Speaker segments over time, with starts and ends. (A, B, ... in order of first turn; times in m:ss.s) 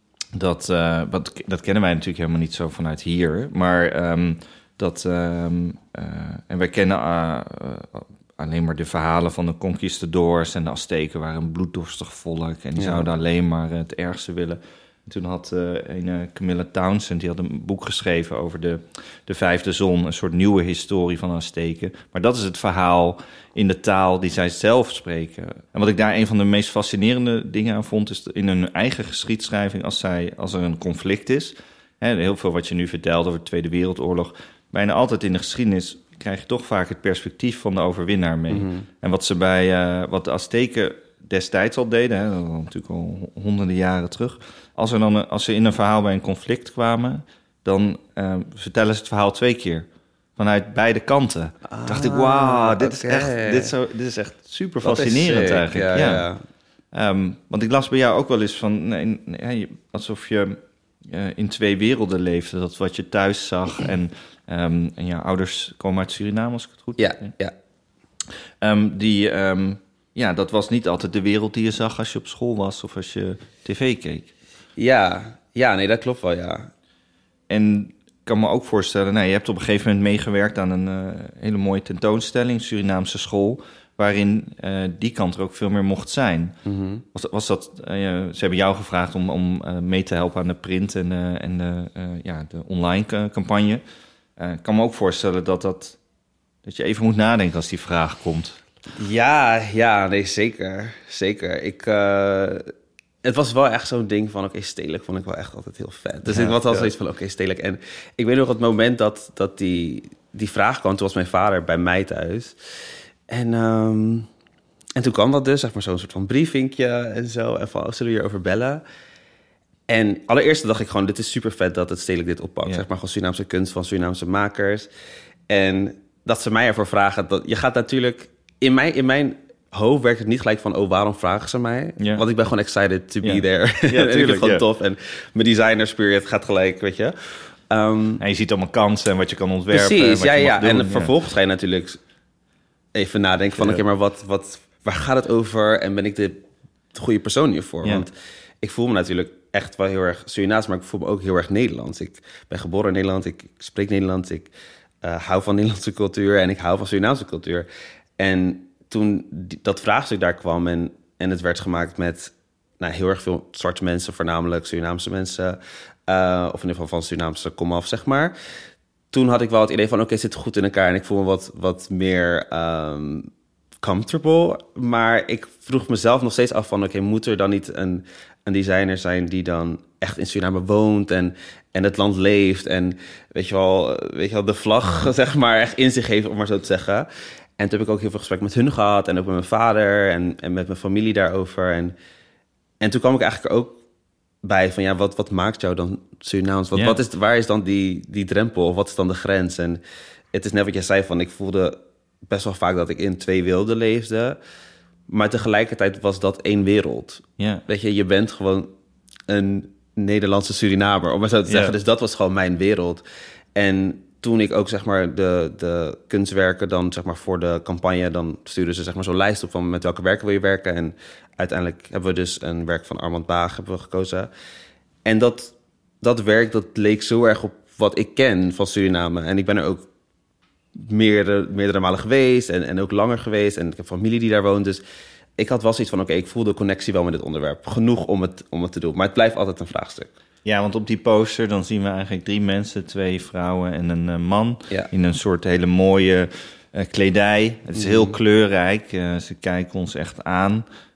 0:00.3-0:56.3 A
0:12.8-0:13.1 B
0:38.5-0:38.9 B
0:51.7-0:53.7 B
0:54.8-0:56.4 B
0:56.9-1:07.3 A
1:07.0-1:07.5 B
1:08.6-1:14.3 A
1:14.8-1:16.7 B
1:17.5-1:26.6 A
1:26.6-1:27.0 B
1:27.1-1:33.8 A
1:34.4-1:36.0 A
1:36.6-1:38.6 A
1:39.0-1:42.7 B
1:43.2-1:52.6 B
1:46.3-1:46.9 A
1:53.3-1:54.3 B
1:55.0-1:58.8 B
1:59.9-2:04.9 B
2:05.5-2:17.2 B
2:12.0-2:12.2 A
2:13.2-2:14.6 A
2:17.7-2:18.2 B
2:18.2-2:21.1 A
2:19.7-2:22.0 B
2:22.9-2:26.4 B
2:26.9-2:34.5 B
2:35.0-2:37.7 B
2:38.2-2:48.3 B
2:49.1-2:53.3 B
2:53.8-3:11.9 B
3:12.8-3:13.8 B
3:14.4-3:19.8 B
3:20.3-3:24.4 B
3:25.1-3:28.7 B
3:27.4-3:27.6 A
3:29.3-3:33.0 B
3:31.5-3:31.7 A
3:33.6-3:44.3 B
3:45.0-3:49.9 B
3:50.7-3:54.8 B
3:55.4-4:00.1 B
4:00.4-4:10.6 A
4:07.8-4:08.1 B